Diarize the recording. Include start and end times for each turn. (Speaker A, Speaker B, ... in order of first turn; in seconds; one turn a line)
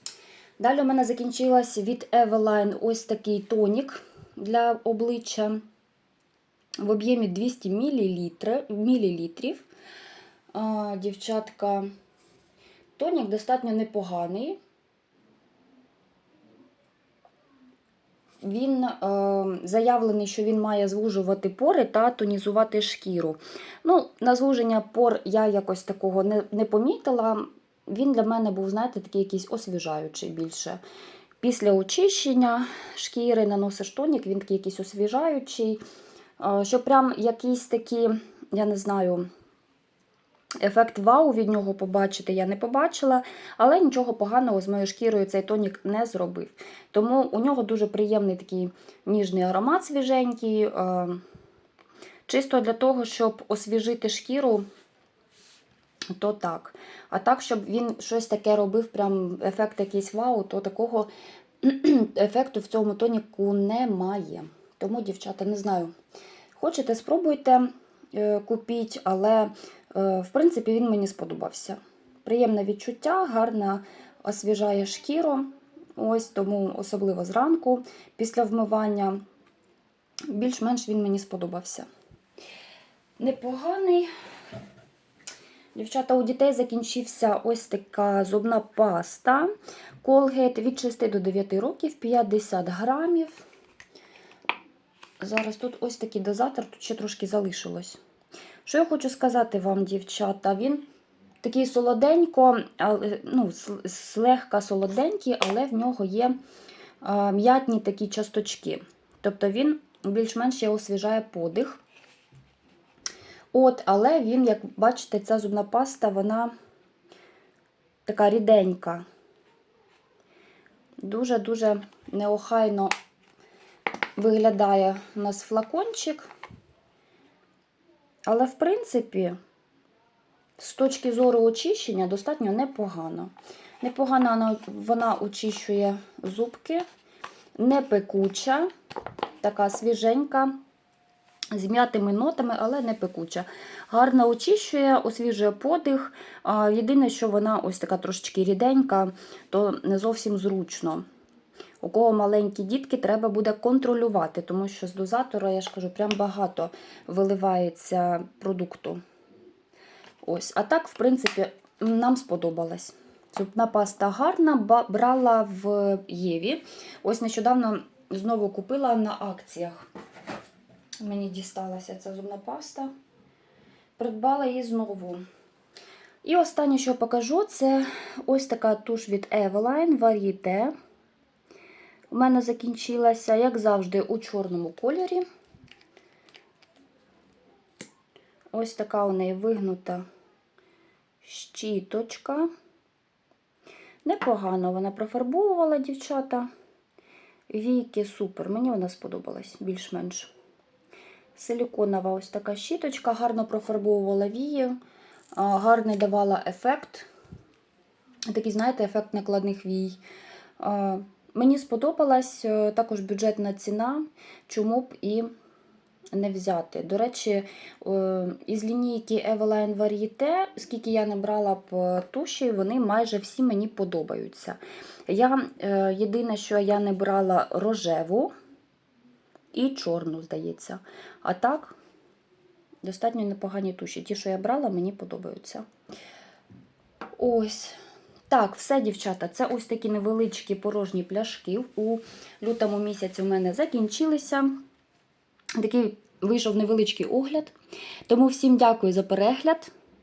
Speaker A: 0.6-5.6
Speaker A: 6.8-9.7
Speaker A: 10.5-11.9
Speaker A: 13.0-14.6
Speaker A: 18.4-30.8
Speaker A: 31.4-35.8
Speaker A: 36.4-39.3
Speaker A: 40.6-51.2
Speaker A: 52.3-54.6
Speaker A: 56.1-61.1
Speaker A: 61.6-65.9
Speaker A: 66.6-79.2
Speaker A: 80.3-81.9
Speaker A: 83.2-84.1
Speaker A: 85.8-89.5
Speaker A: 90.0-93.4
Speaker A: 95.2-98.0
Speaker A: 98.7-100.8
Speaker A: 101.4-106.3
Speaker A: 107.0-111.8
Speaker A: 113.5-116.5
Speaker A: 118.1-119.0
Speaker A: 121.0-122.9
Speaker A: 124.2-126.3
Speaker A: 128.3-129.4
Speaker A: 130.6-136.9
Speaker A: 137.6-138.7
Speaker A: 139.4-140.5
Speaker A: 141.5-151.0
Speaker A: 151.8-159.0
Speaker A: 160.2-169.9
Speaker A: 171.0-172.9
Speaker A: 174.0-175.2
Speaker A: 176.2-180.7
Speaker A: 182.1-185.2
Speaker A: 188.5-190.0
Speaker A: 191.2-192.5
Speaker A: 194.1-196.5
Speaker A: 197.5-200.3
Speaker A: 201.3-204.8
Speaker A: 205.3-207.1
Speaker A: 208.3-210.0
Speaker A: 210.6-215.3
Speaker A: 216.1-228.3
Speaker A: 229.5-231.8
Speaker A: 232.8-235.7
Speaker A: 237.2-237.8
Speaker A: 238.3-244.6
Speaker A: 245.6-247.6
Speaker A: 248.1-249.7